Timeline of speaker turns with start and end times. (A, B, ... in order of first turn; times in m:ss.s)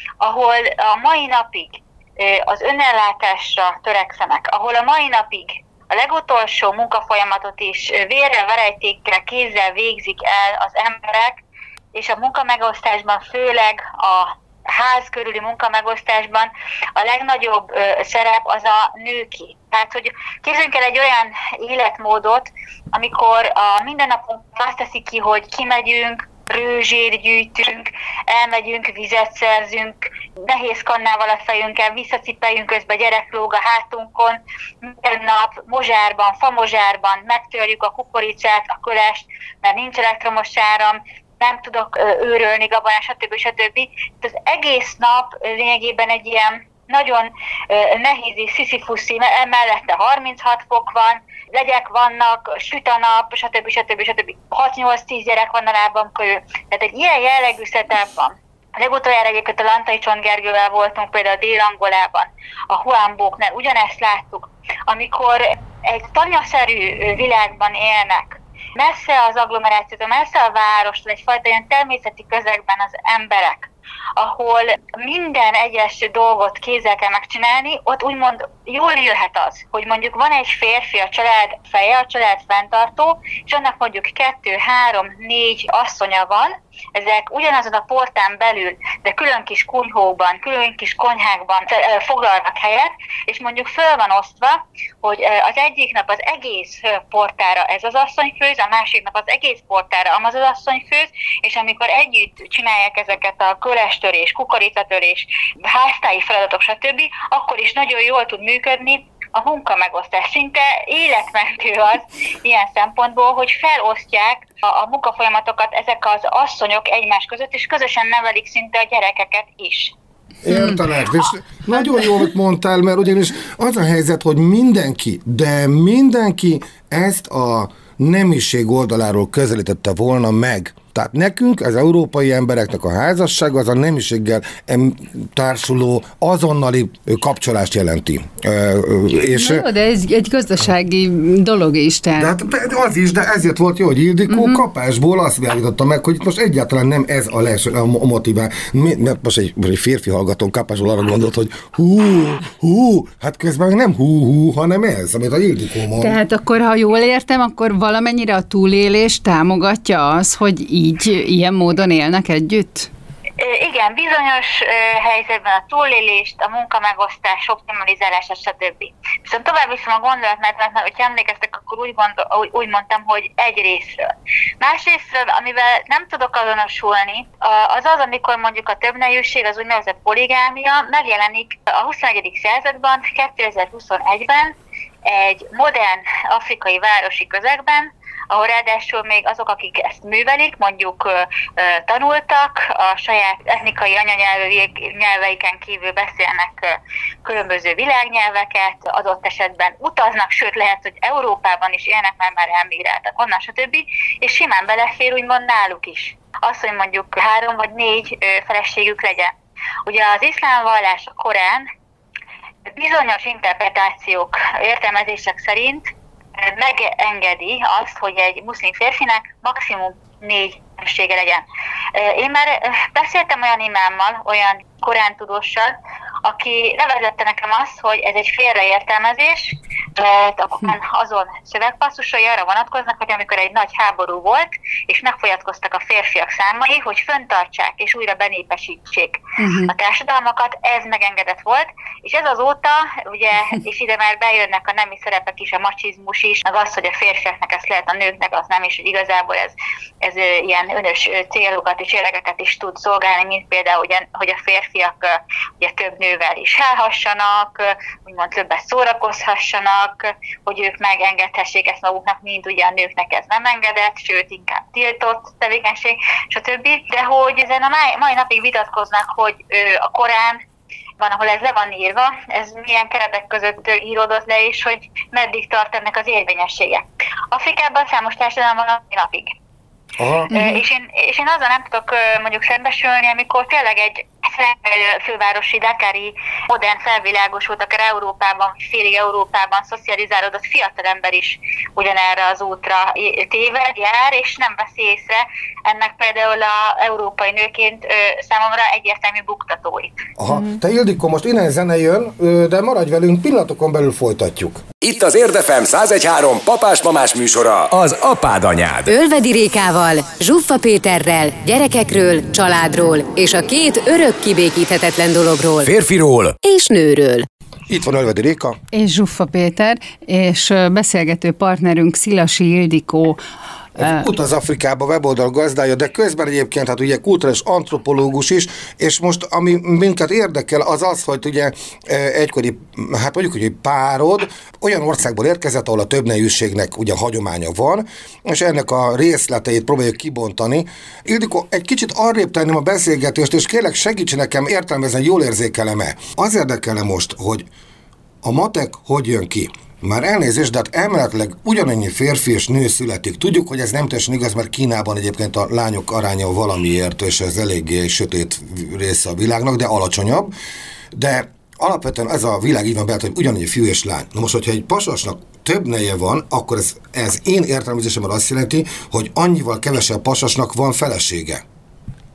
0:00.2-0:11.4 A
0:11.9-1:59.9 A
2:00.4-2:19.7 B
2:00.5-2:00.8 C
2:19.3-2:22.3 C
2:22.2-2:36.2 B
2:24.3-2:24.6 C
2:36.0-2:42.9 C
2:43.4-2:54.0 A
2:54.6-3:29.3 A
3:29.8-3:31.7 A
3:32.6-3:35.8 A
3:36.4-4:30.4 A
3:59.4-3:59.7 C
4:31.0-4:39.3 A
4:40.0-4:40.3 B
4:40.3-5:00.0 A
4:40.3-4:40.6 C
5:00.2-5:04.6 B
5:04.8-5:08.9 D
5:08.9-5:15.7 E
5:15.6-5:16.4 D
5:16.4-5:17.2 E
5:17.7-5:18.6 B
5:18.7-5:23.2 C
5:23.8-5:47.5 B
5:48.2-6:00.3 B
6:00.9-6:11.4 B